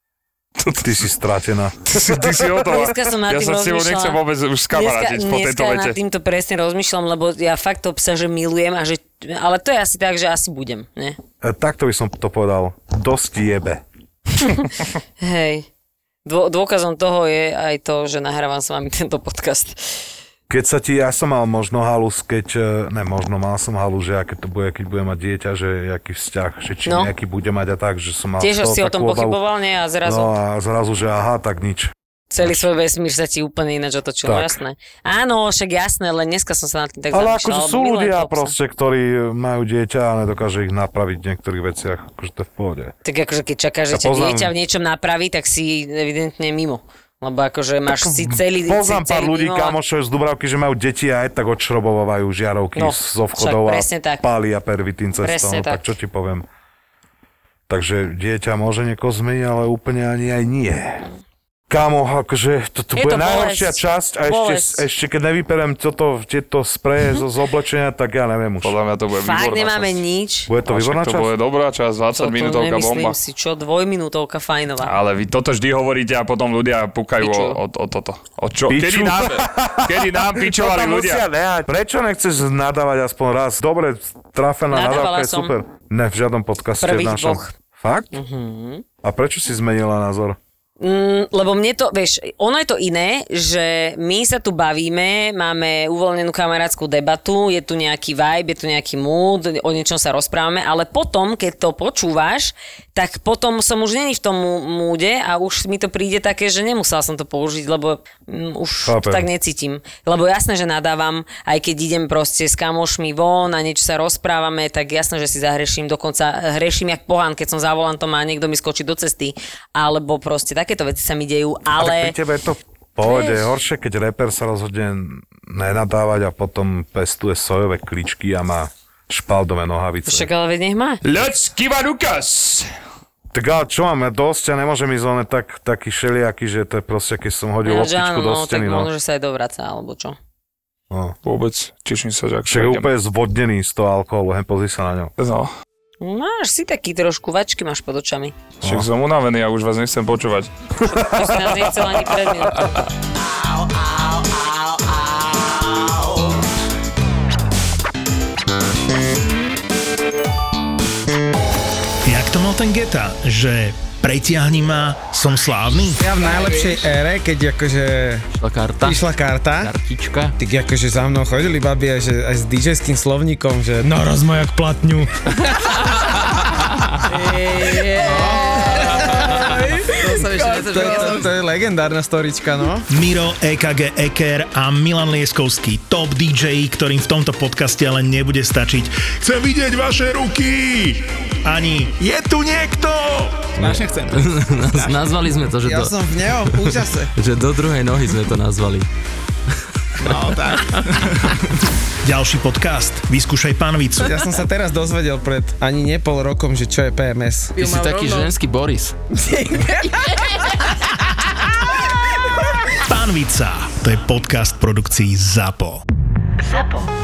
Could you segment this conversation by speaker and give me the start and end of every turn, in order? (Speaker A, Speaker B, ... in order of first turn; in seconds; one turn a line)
Speaker A: 0.6-1.0
Speaker B: 0.8-2.6
Speaker A: 1.9-6.0
Speaker C: 2.6-4.2
Speaker C: 4.7-11.2
Speaker B: 11.4-13.8
Speaker C: 14.4-15.7
Speaker C: 16.2-20.1
Speaker B: 20.5-29.4
Speaker C: 26.9-27.1
Speaker C: 28.4-30.3
Speaker B: 30.0-31.9
Speaker C: 32.3-38.5
Speaker B: 34.2-34.6
Speaker B: 37.1-42.9
Speaker C: 43.0-49.8
Speaker B: 43.9-44.5
Speaker B: 48.2-56.4
Speaker C: 52.7-54.2
Speaker C: 55.2-55.9
Speaker B: 57.7-61.1
Speaker B: 61.7-68.7
Speaker C: 63.0-64.8
Speaker A: 68.6-70.0
Speaker C: 69.1-70.5
Speaker B: 70.5-71.3
Speaker A: 70.7-73.2
Speaker C: 72.1-74.9
Speaker A: 74.8-81.2
Speaker C: 77.2-77.6
Speaker B: 78.7-88.1
Speaker C: 84.7-85.5
Speaker C: 86.8-87.5
Speaker C: 88.1-88.8
Speaker B: 89.0-90.4
Speaker C: 90.8-122.1
Speaker B: 108.9-109.3
Speaker B: 121.8-130.3
Speaker C: 123.0-123.5
Speaker C: 130.1-131.0
Speaker A: 131.0-132.7
Speaker B: 133.3-138.9
Speaker C: 137.6-140.2
Speaker B: 140.9-141.2
Speaker A: 141.2-142.9
Speaker B: 142.5-145.1
Speaker A: 145.2-145.5
Speaker C: 146.0-148.3
Speaker B: 148.6-148.9
Speaker A: 148.6-150.5
Speaker B: 150.8-151.5
Speaker C: 150.8-152.8
Speaker D: 162.0-166.0
Speaker E: 166.0-168.3
Speaker F: 168.3-170.4
Speaker E: 168.8-169.7
Speaker E: 170.4-176.4
Speaker C: 177.1-179.0
Speaker E: 177.6-182.9
Speaker D: 182.9-193.7
Speaker F: 193.6-198.9
Speaker E: 195.6-197.1
Speaker F: 200.0-201.3
Speaker E: 200.0-200.9
Speaker D: 202.0-204.3
Speaker E: 204.0-207.8
Speaker F: 207.6-208.9
Speaker E: 209.2-210.6
Speaker D: 212.8-215.8